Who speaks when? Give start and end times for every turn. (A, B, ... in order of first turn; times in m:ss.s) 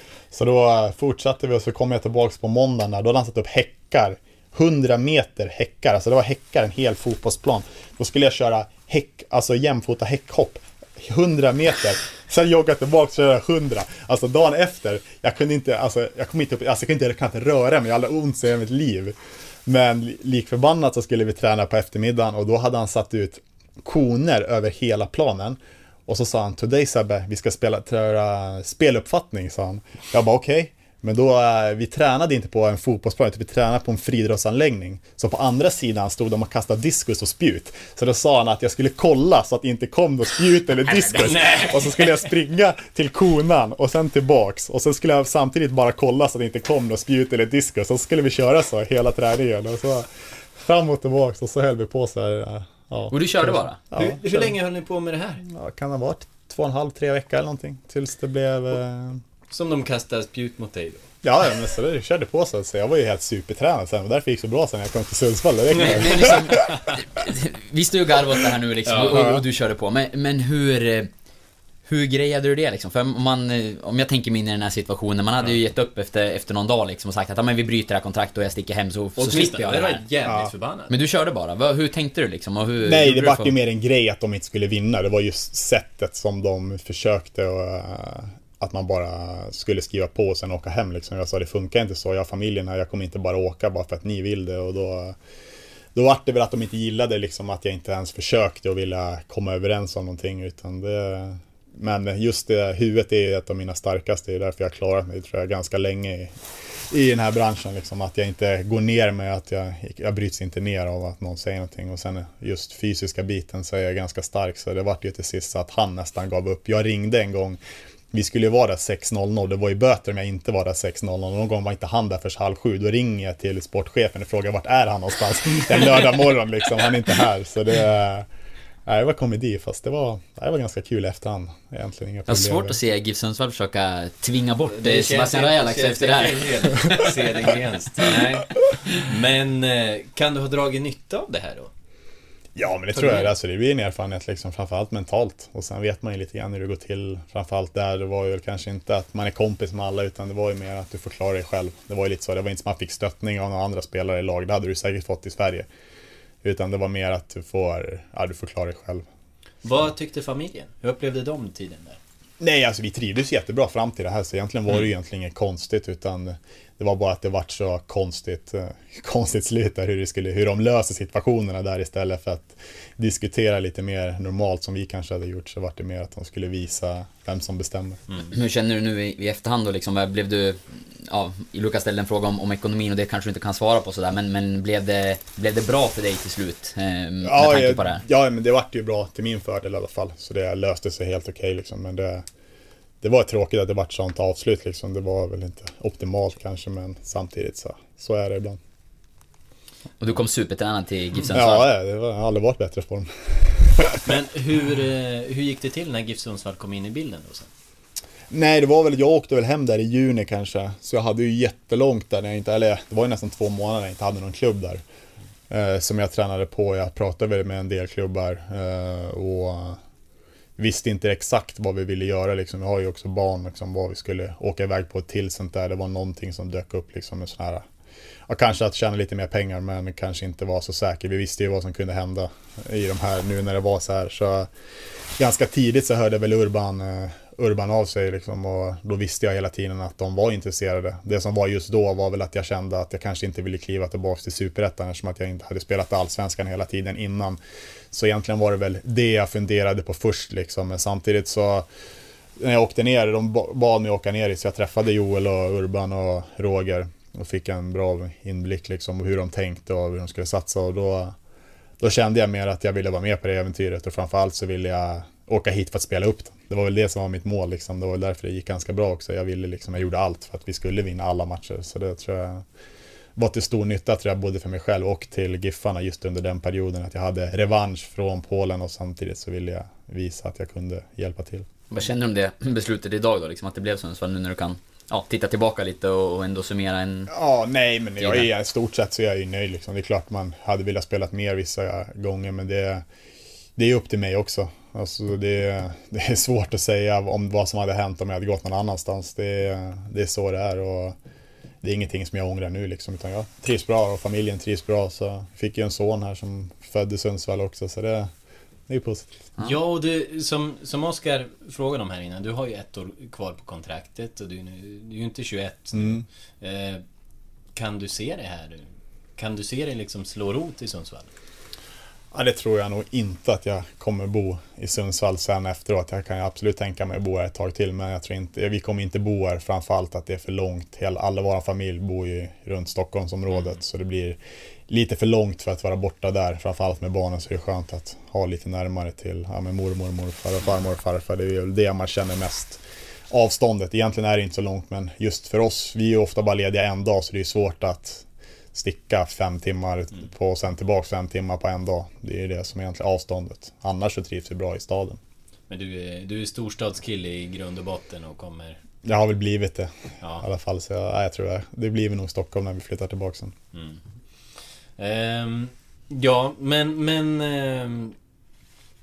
0:00.3-0:54.5 A
0:41.0-0:41.7 B
0:41.2-0:41.8 C
0:53.1-0:53.8 B
0:53.9-0:55.4 C
0:55.4-0:59.2 A
0:59.5-1:01.1 C
1:01.2-1:06.8 A
1:05.8-1:11.1 B
1:05.8-1:06.7 C
1:08.8-1:09.3 C
1:09.1-1:09.4 A
1:11.9-1:20.0 B
1:19.2-1:20.9 C
1:20.2-1:20.5 A
1:20.9-1:23.5 B
1:22.8-1:35.2 A
1:35.9-1:46.3 A
1:46.9-1:57.6 A
1:58.1-2:08.3 A
2:08.8-2:12.8 A
2:12.3-2:17.1 B
2:14.7-2:21.7 C
2:22.5-2:35.7 A
2:36.4-2:39.0 A
2:39.6-2:42.0 C
2:42.4-2:58.0 A
2:58.3-3:08.0 B
3:07.2-3:12.2 A
3:13.0-3:18.6 A
3:20.0-3:21.7 B
3:21.3-3:24.1 A
3:24.0-3:27.5 C
3:28.3-3:34.8 A
3:35.5-3:39.8 A
3:40.6-3:47.7 A
3:48.3-3:54.5 A
3:55.2-4:07.4 A
4:07.9-4:11.7 A
4:12.4-4:21.1 A
4:21.8-4:32.4 A
4:33.2-4:41.5 A
4:41.7-4:47.1 B
4:47.1-4:52.8 A
4:48.0-4:48.3 B
4:53.6-5:01.0 A
5:01.6-5:08.1 A
5:08.7-5:09.1 A
5:09.4-5:16.8 C
5:15.7-5:16.0 A
5:17.5-5:18.6 C
5:19.2-5:21.1 C
5:22.1-5:55.0 A
5:55.5-5:58.6 C
5:58.8-6:03.3 A
6:03.5-6:03.8 C
6:04.8-6:07.9 C